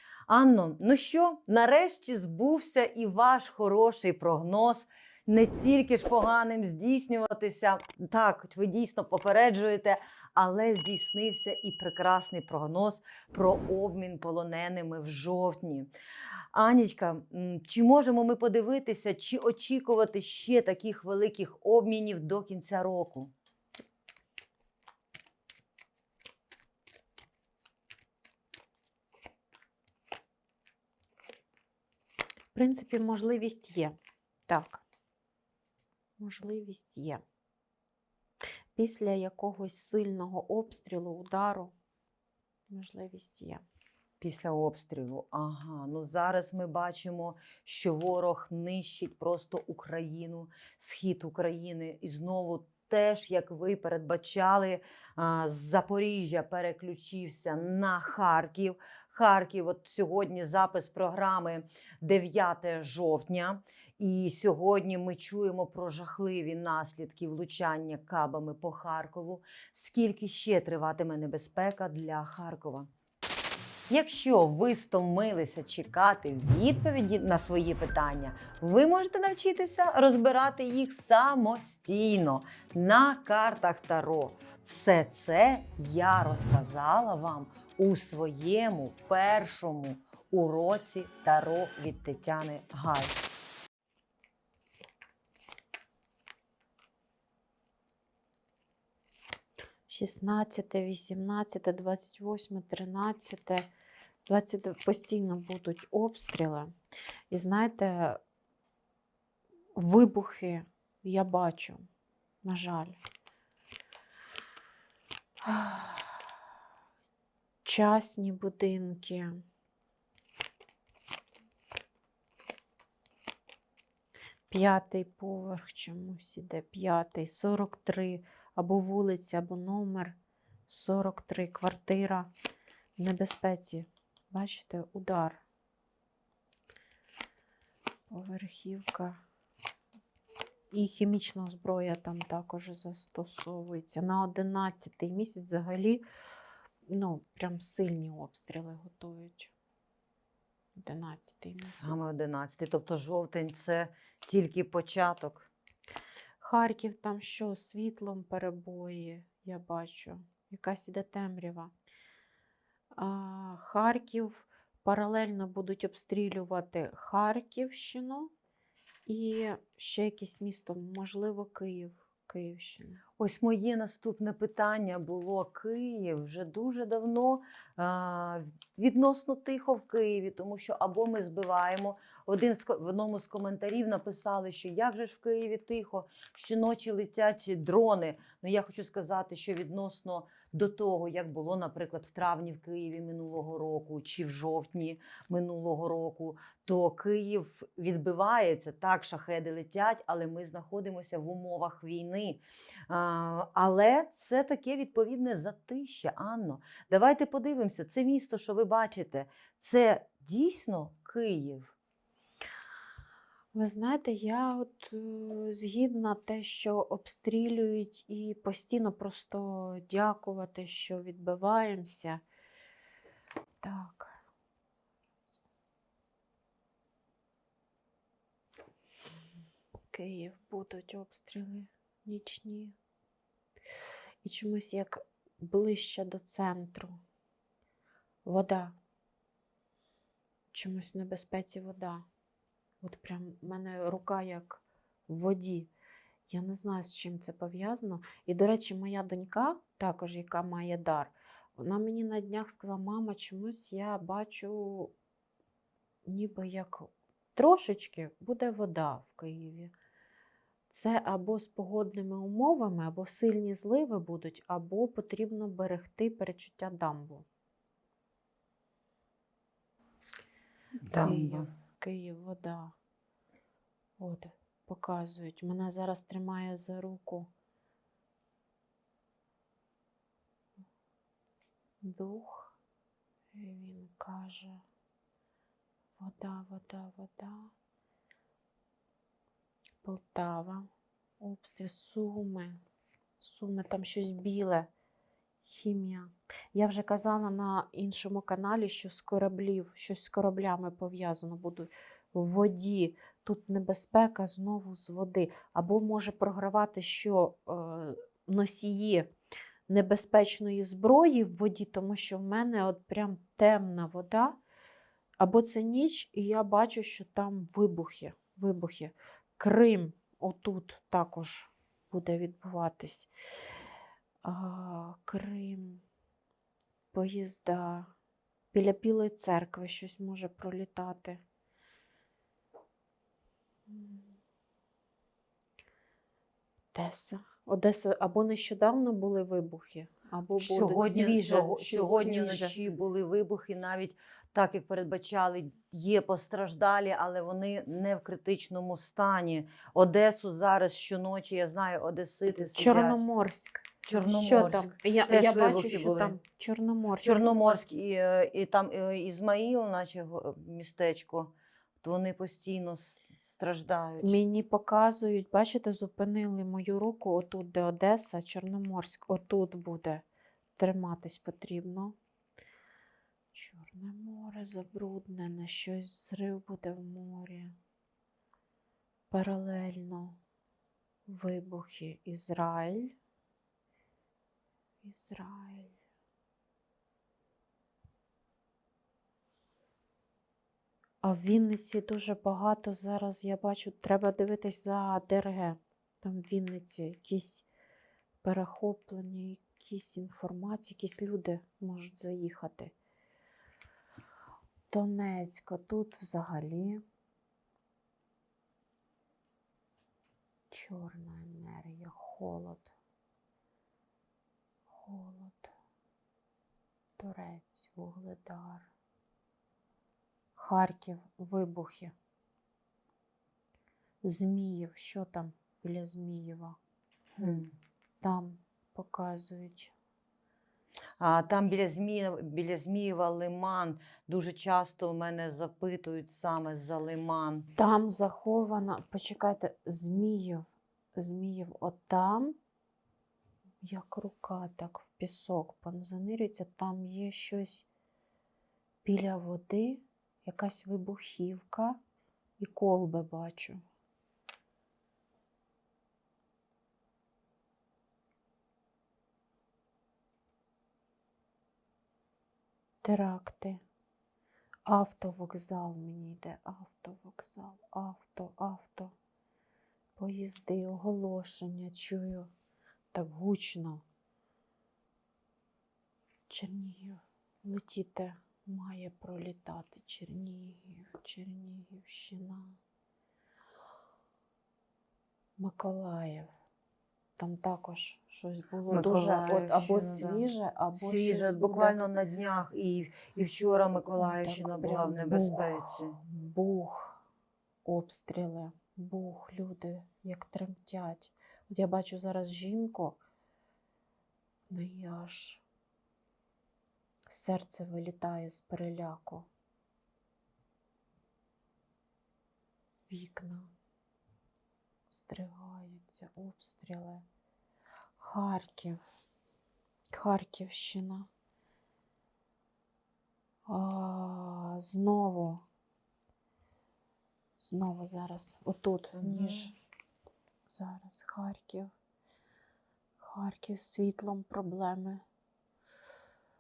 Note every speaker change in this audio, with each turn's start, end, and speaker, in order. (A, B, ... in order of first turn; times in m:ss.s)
0:00.3-0:15.9 A
0:16.5-0:23.3 A
0:32.5-0:34.0 B
0:34.5-0:34.8 B
0:36.2-0:37.2 B
0:38.8-0:41.7 B
0:42.7-0:43.6 B
0:44.2-1:12.9 A
1:13.9-1:33.2 A
1:39.9-1:43.7 B
1:44.3-1:46.7 B
1:47.3-1:48.2 B
1:49.8-1:51.8 B
1:52.4-1:53.0 B
1:55.4-1:56.3 B
1:57.6-1:59.4 B
2:04.5-2:10.2 B
2:10.7-2:12.3 B
2:13.0-2:15.4 B
2:18.1-2:19.2 B
2:20.7-2:26.0 B
2:26.9-2:29.5 B
2:30.8-2:32.0 B
2:31.8-2:35.5 A
2:36.4-2:41.7 B
2:43.0-2:48.3 B
2:49.1-2:53.0 B
2:53.2-3:31.7 A
3:33.5-3:42.2 B
3:43.6-3:44.2 B
3:49.9-3:52.8 B
3:54.2-3:57.0 B
3:58.2-3:58.8 B
4:00.5-4:02.0 B
4:02.8-4:05.7 B
4:06.3-4:14.9 B
4:16.1-4:19.7 B
4:20.7-4:27.3 B
4:30.9-4:31.5 A
4:31.0-4:32.7 B
4:34.0-4:37.3 B
4:41.8-4:42.6 B
4:43.4-4:44.6 B
4:46.0-4:47.5 B
4:49.8-4:50.7 B
4:51.2-4:52.6 B
4:53.2-4:54.7 B
4:55.5-5:09.1 B
5:09.7-5:14.4 B
5:15.2-5:23.1 B
5:24.2-5:25.8 B
5:26.9-5:27.9 B
5:28.5-5:31.2 B
5:33.7-5:34.1 B
5:36.7-5:42.6 B
5:40.4-5:53.0 A
5:52.3-5:57.6 B
5:53.8-5:56.2 A
5:57.0-6:04.2 A
6:04.0-6:10.0 B
6:10.6-6:12.0 B
6:13.3-6:17.5 B
6:19.1-6:20.2 B
6:21.1-6:23.0 B
6:24.8-6:25.7 B
6:31.0-6:37.5 B
6:38.2-6:42.7 B
6:44.7-6:46.8 B
6:50.5-6:52.7 B
6:54.7-6:55.5 B
6:57.0-6:58.7 B
7:00.4-7:01.9 B
7:04.0-7:06.6 B
7:07.2-7:07.5 A
7:08.0-7:09.7 B
7:11.0-7:17.5 A
7:17.6-7:20.4 B
7:21.0-7:22.4 B
7:23.6-7:27.7 B
7:28.8-7:31.8 B
7:32.4-7:33.6 B
7:42.8-7:43.6 B
7:44.7-7:48.9 B
7:50.0-7:52.3 B
7:52.9-7:53.8 B
7:56.3-8:02.6 B
8:05.4-8:06.3 B
8:07.2-8:11.8 B
8:08.7-8:16.0 A
8:14.0-8:17.0 B
8:17.7-8:23.0 B
8:24.5-8:25.4 B
8:27.1-8:29.3 B
8:32.9-8:33.5 B
8:34.9-8:37.0 B
8:38.0-8:38.8 B
8:39.9-8:41.1 B
8:43.5-8:45.4 B
8:47.4-8:49.6 B
8:49.0-8:49.5 A
8:50.5-8:51.7 B
8:53.0-8:55.0 B